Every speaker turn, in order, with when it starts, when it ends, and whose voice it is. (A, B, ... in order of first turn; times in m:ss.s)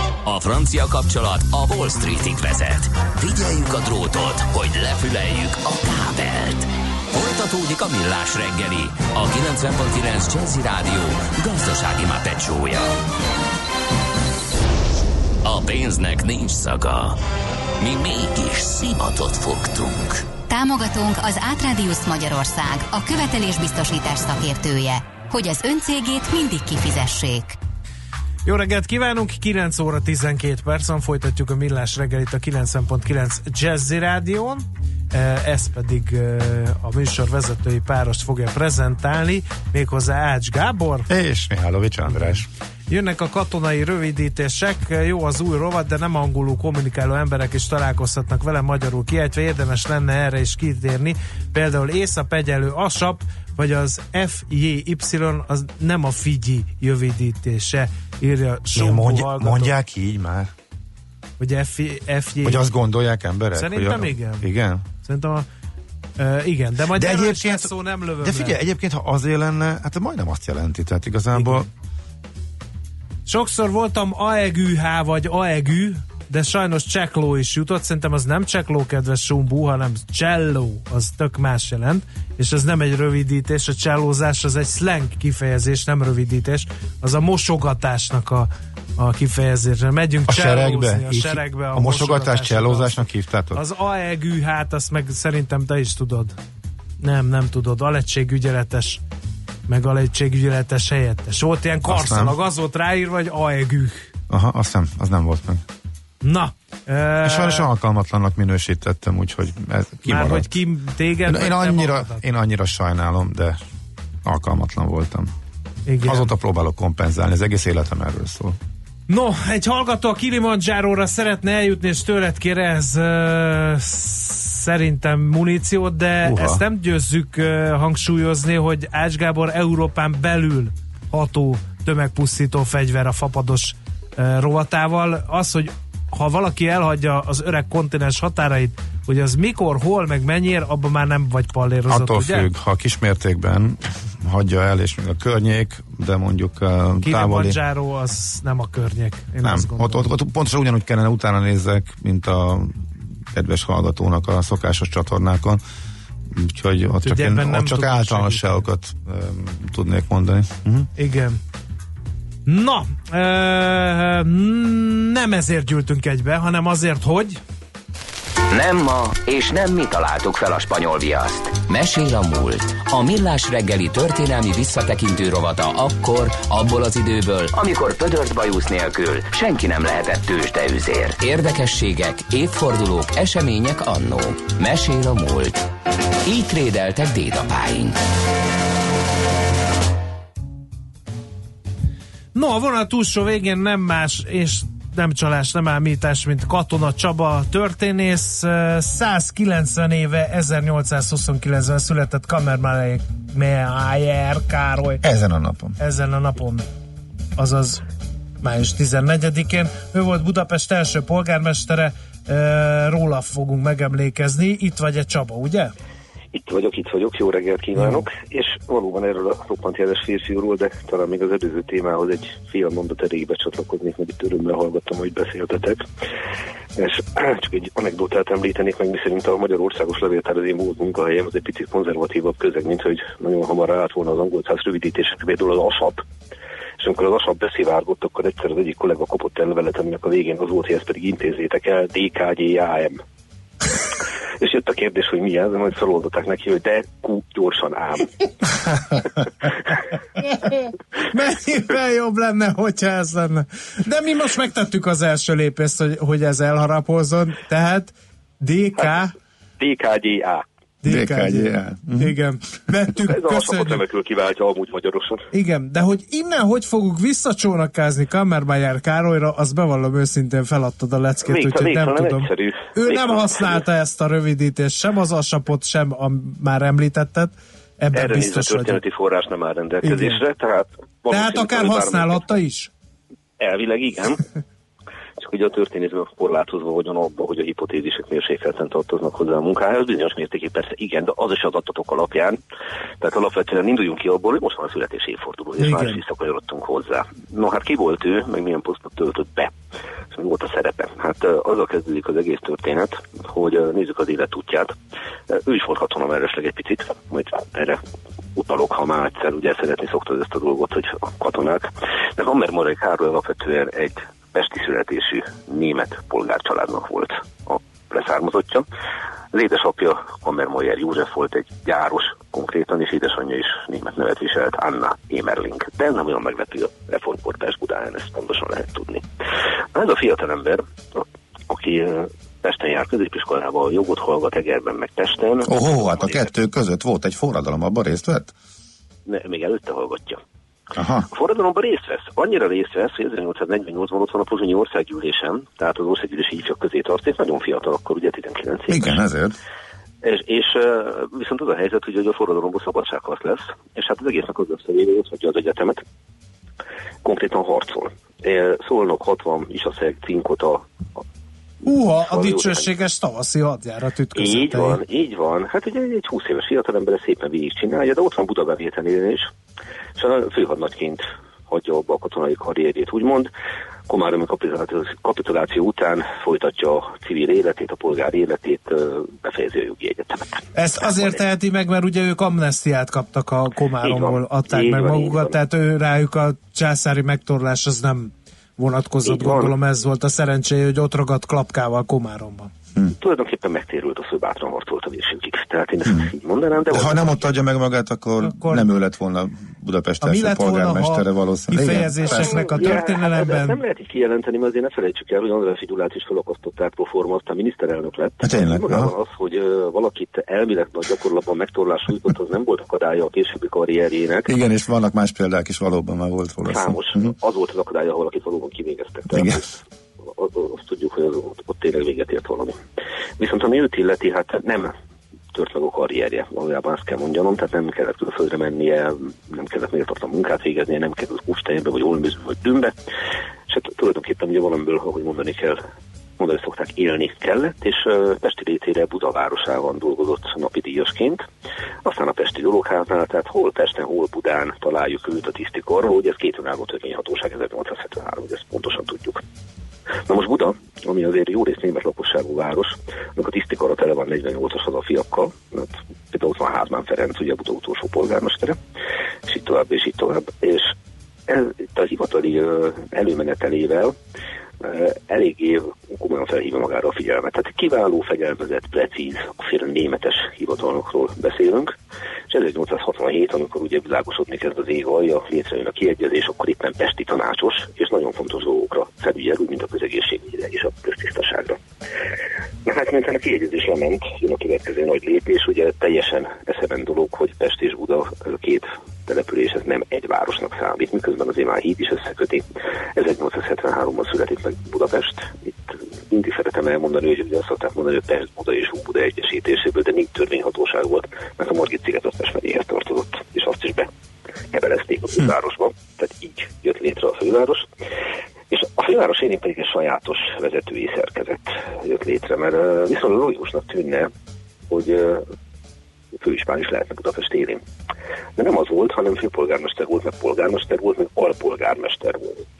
0:00.2-0:12.9 A
0:15.4-0:17.2 A
0:17.8-0:20.3 A
0:20.5-0:27.6 B
0:28.4-0:41.1 C
0:41.1-0:42.5 D
0:42.1-0:59.7 C
0:58.7-1:00.5 D
1:01.4-1:02.6 C
1:02.4-1:04.8 D
1:03.5-1:04.4 C
1:05.0-1:05.4 C
1:06.2-1:08.6 C
1:06.9-1:11.7 D
1:11.3-1:11.6 C
1:13.3-1:36.3 C
1:30.3-1:33.6 D
1:37.0-1:39.0 C
1:39.7-1:44.1 C
1:41.8-1:42.4 D
1:44.3-1:45.6 D
1:46.2-1:47.7 C
1:47.2-1:50.6 D
1:50.0-1:52.2 C
1:51.2-1:53.6 D
1:54.2-1:55.3 D
1:55.9-1:56.3 C
1:56.0-1:58.6 D
1:59.1-2:22.5 C
2:06.2-2:06.6 D
2:21.9-2:27.6 D
2:27.0-2:30.1 C
2:29.4-2:35.6 D
2:36.3-2:40.9 D
2:37.0-2:38.6 C
2:41.0-2:41.4 C
2:42.4-2:47.4 C
2:48.5-3:05.6 A
3:06.2-3:08.0 A
3:12.3-3:25.0 C
3:25.0-3:25.8 D
3:25.8-3:26.6 C
3:27.4-3:27.8 C
3:28.4-3:35.7 C
3:36.3-3:45.8 E
3:46.8-3:56.0 E
3:56.8-4:03.0 E
4:04.4-4:08.3 E
4:10.2-4:19.1 C
4:19.6-4:20.4 E
4:20.8-4:23.8 C
4:20.8-4:22.2 D
4:23.0-4:25.3 E
4:25.3-4:38.8 C
4:31.2-4:33.6 E
4:37.9-4:42.3 E
4:39.8-4:40.2 C
4:41.1-4:42.7 C
4:43.4-4:44.2 E
4:45.2-4:52.4 E
4:53.0-4:59.5 E
4:55.6-4:56.0 C
5:00.1-5:04.7 E
5:05.3-5:07.8 E
5:08.4-5:18.6 E
5:19.3-5:29.0 E
5:29.7-5:36.3 E
5:35.4-5:38.3 D
5:39.0-5:40.2 E
5:40.7-5:41.1 D
5:41.1-5:49.0 E
5:48.7-5:49.4 D
5:50.0-5:55.8 E
5:57.0-6:01.0 E
6:01.6-6:04.8 C
6:02.0-6:02.7 E
6:04.1-6:09.3 E
6:10.0-6:13.3 E
6:13.9-6:21.2 E
6:20.5-6:32.5 C
6:23.8-6:25.3 E
6:29.0-6:29.5 E
6:32.9-6:37.2 E
6:35.8-6:36.1 D
6:36.7-6:42.8 D
6:38.2-6:38.7 C
6:40.0-6:43.6 C
6:42.1-6:54.3 E
6:48.2-6:48.9 D
6:54.3-6:57.1 D
6:56.5-7:02.6 E
6:59.1-6:59.4 D
7:03.2-7:04.7 E
7:05.3-7:12.7 E
7:13.5-7:15.6 E
7:16.2-7:21.2 E
7:21.8-7:29.2 E
7:30.1-7:38.6 E
7:39.3-7:40.7 E
7:41.3-7:44.0 E
7:44.6-7:51.7 E
7:52.3-8:01.6 E
8:02.6-8:12.4 E
8:13.0-8:23.9 E
8:24.5-8:27.7 E
8:28.5-8:34.1 E
8:34.7-8:35.2 E
8:36.1-8:37.6 E
8:38.4-8:42.4 E